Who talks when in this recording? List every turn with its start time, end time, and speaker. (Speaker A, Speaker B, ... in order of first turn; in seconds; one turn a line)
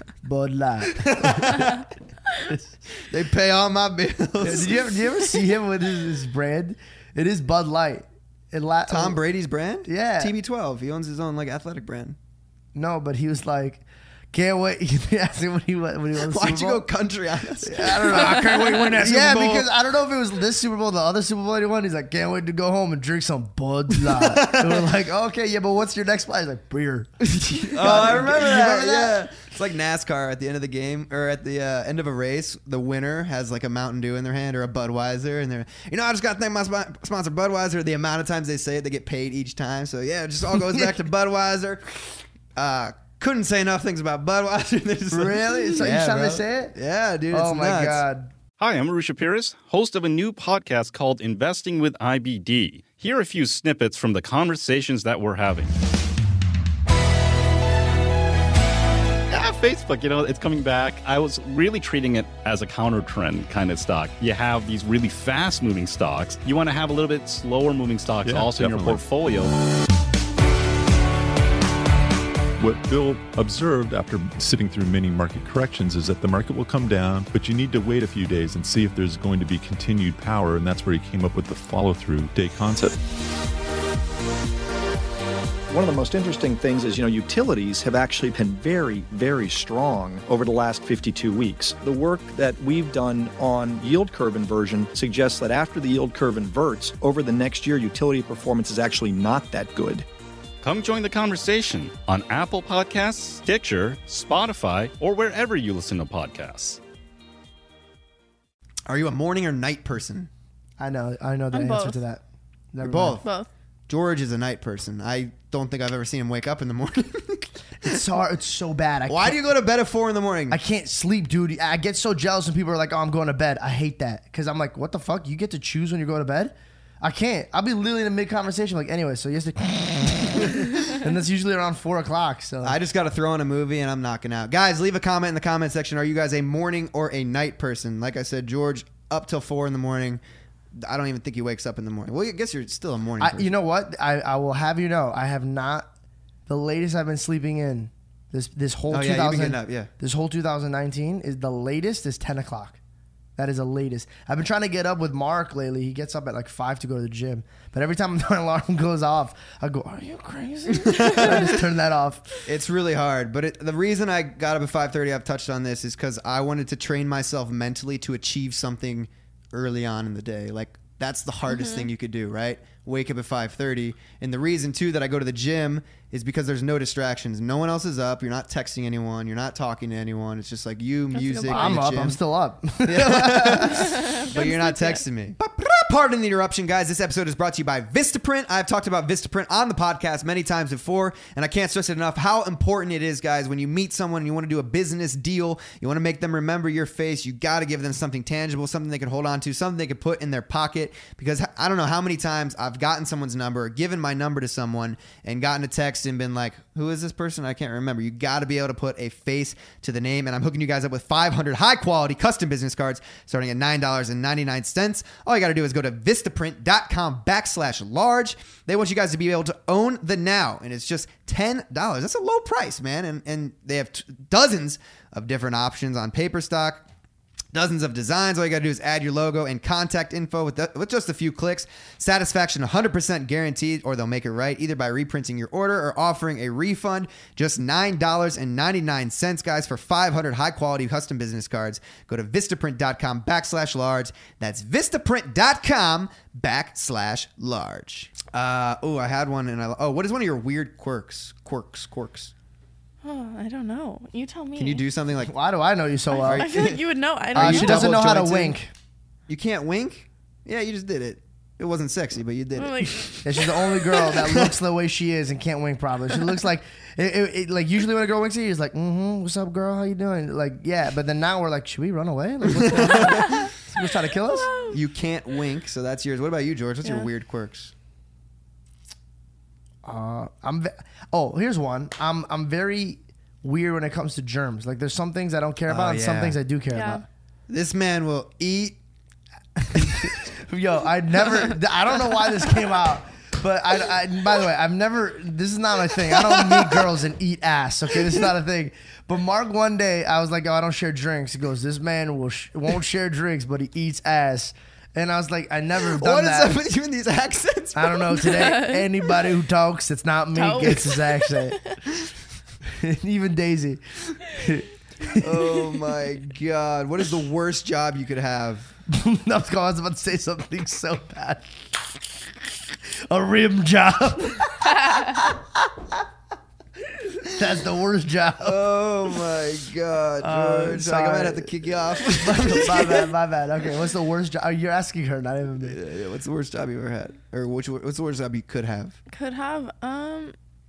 Speaker A: 0.2-1.6
Speaker B: 1.0-1.8
Speaker B: 3.0-4.8
Speaker A: 4.4-9.2
Speaker B: 8.9-12.2
Speaker A: 9.8-10.3
Speaker A: 12.7-16.8
Speaker B: 16.2-19.7
Speaker A: 17.6-29.2
Speaker B: 23.9-24.9
Speaker B: 27.5-48.0
Speaker A: 45.1-46.8
Speaker A: 47.3-48.3
Speaker C: 48.6-55.7
Speaker C: 59.3-69.5
Speaker D: 68.2-69.0
Speaker D: 72.6-83.0
Speaker E: 85.7-100.0
Speaker C: 100.6-106.8
Speaker B: 108.9-110.3
Speaker A: 110.8-112.2
Speaker F: 111.5-112.0
Speaker A: 112.7-113.2
Speaker B: 112.8-113.3
Speaker F: 113.2-113.5
Speaker B: 113.9-118.0
Speaker A: 117.8-119.4
Speaker B: 119.1-120.6
Speaker A: 120.5-132.8
Speaker B: 132.6-140.2
Speaker B: 140.8-143.5
Speaker A: 143.2-145.9
Speaker A: 146.5-152.8
Speaker B: 148.9-149.9
Speaker A: 153.4-162.3
Speaker B: 160.8-161.4
Speaker B: 162.4-182.2
Speaker F: 171.5-171.9
Speaker F: 181.1-181.8
Speaker A: 181.5-183.9
Speaker B: 182.8-226.8
Speaker F: 183.7-185.0
Speaker B: 227.5-252.3
Speaker F: 253.0-254.8
Speaker B: 254.6-255.3
Speaker A: 255.2-256.5
Speaker F: 256.1-257.9
Speaker B: 256.2-258.6
Speaker A: 257.4-258.7
Speaker B: 259.3-264.5
Speaker F: 262.6-264.1
Speaker A: 263.2-274.5
Speaker B: 272.4-273.4
Speaker F: 273.2-273.5
Speaker F: 274.1-274.8
Speaker B: 274.7-277.7
Speaker F: 276.8-277.1
Speaker A: 279.8-287.0
Speaker B: 285.7-286.4
Speaker F: 286.7-287.0
Speaker B: 287.5-288.8
Speaker B: 289.7-290.1
Speaker A: 289.7-306.6
Speaker B: 296.1-296.8
Speaker B: 305.9-308.3
Speaker A: 307.7-311.6
Speaker F: 308.2-309.3
Speaker F: 310.3-311.8
Speaker A: 312.7-315.6
Speaker B: 315.1-318.7
Speaker A: 318.9-322.0
Speaker A: 322.7-325.4
Speaker A: 327.1-328.6
Speaker B: 328.4-333.1
Speaker A: 330.2-335.8
Speaker B: 335.6-339.0
Speaker F: 339.1-340.3